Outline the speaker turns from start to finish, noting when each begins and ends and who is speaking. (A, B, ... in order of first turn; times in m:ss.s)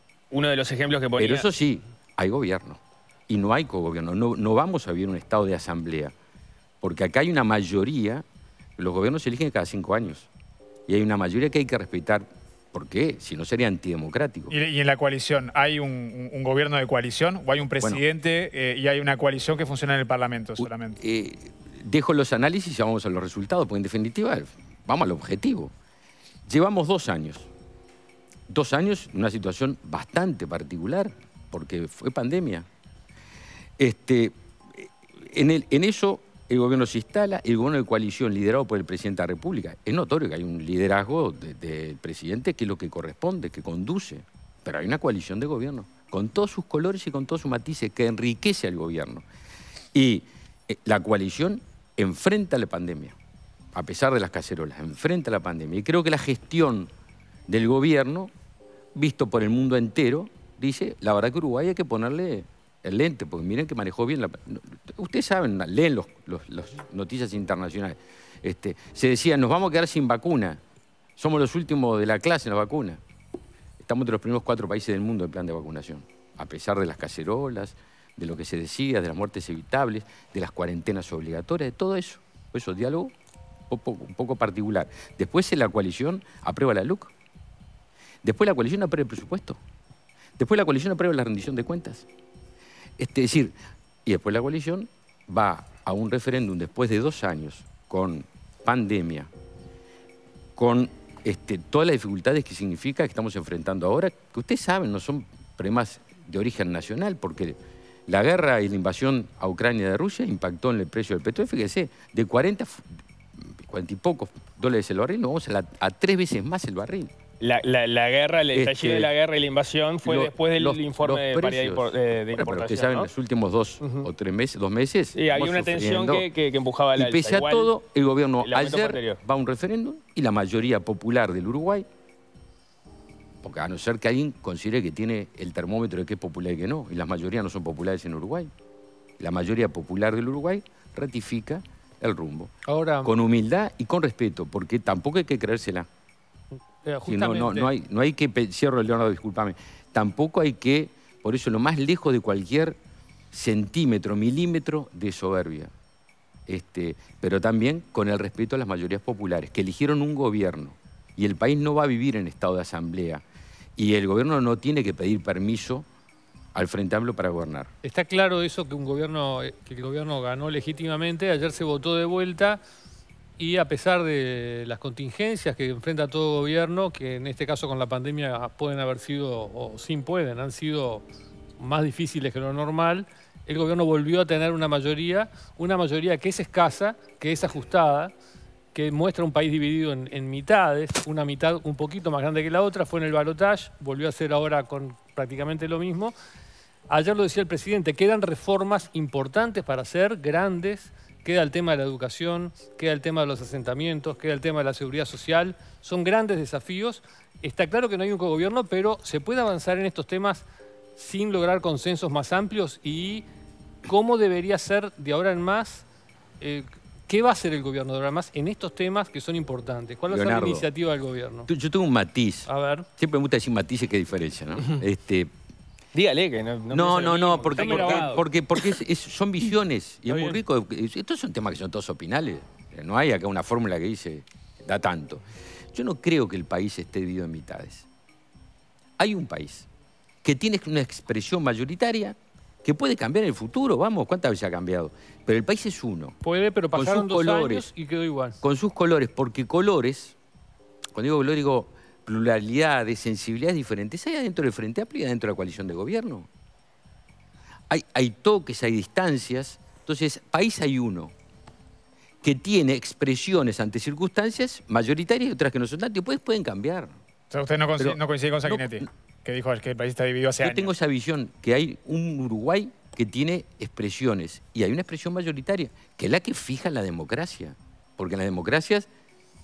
0:00.3-0:01.5 A
0:01.2-0:06.1 B
0:06.8-0:08.2 B
0:08.8-0:10.3 B
0:10.9-0:14.5 B
0:14.5-0:21.0 C
0:20.6-0:25.7 B
0:26.5-0:27.5 B
0:28.5-0:32.7 B
0:33.8-0:49.2 B
0:49.9-0:53.2 B
0:53.8-0:56.9 B
0:57.5-0:58.3 B
0:58.9-1:10.6 B
1:11.2-1:13.0 B
1:13.8-1:23.1 B
1:23.7-1:27.1 B
1:28.2-1:29.6 B
1:30.4-1:32.1 B
1:33.0-1:33.5 B
1:34.1-1:39.3 B
1:40.6-1:52.9 B
1:53.5-1:57.1 B
1:57.4-2:03.1 A
1:58.5-1:59.1 B
2:00.0-2:06.3 B
2:03.8-2:04.1 A
2:05.1-2:07.7 A
2:07.0-2:11.9 B
2:08.4-2:09.2 A
2:13.4-2:18.5 B
2:19.2-2:22.5 B
2:22.7-2:23.1 D
2:23.0-2:25.9 B
2:26.8-2:27.7 D
2:27.0-2:32.8 B
2:33.3-2:35.7 B
2:36.5-2:43.2 B
2:43.8-2:45.9 B
2:46.6-2:47.7 B
2:47.8-2:52.6 D
2:53.4-3:01.0 D
3:01.6-3:08.1 D
3:08.7-3:16.1 D
3:16.9-3:30.4 D
3:31.0-3:33.2 D
3:33.8-3:35.8 D
3:36.4-3:41.5 D
3:40.1-3:40.7 B
3:41.5-3:45.3 B
3:42.5-3:42.9 D
3:45.9-3:48.2 A
3:46.7-3:57.9 B
3:47.7-3:48.2 D
3:50.1-3:50.4 D
3:59.0-3:59.7 B
4:00.2-4:06.2 B
4:06.2-4:08.4 D
4:06.7-4:07.7 B
4:08.4-4:10.2 B
4:11.0-4:16.3 B
4:17.7-4:21.1 B
4:22.2-4:26.9 B
4:27.3-4:30.7 C
4:27.8-4:28.8 B
4:30.4-4:38.9 B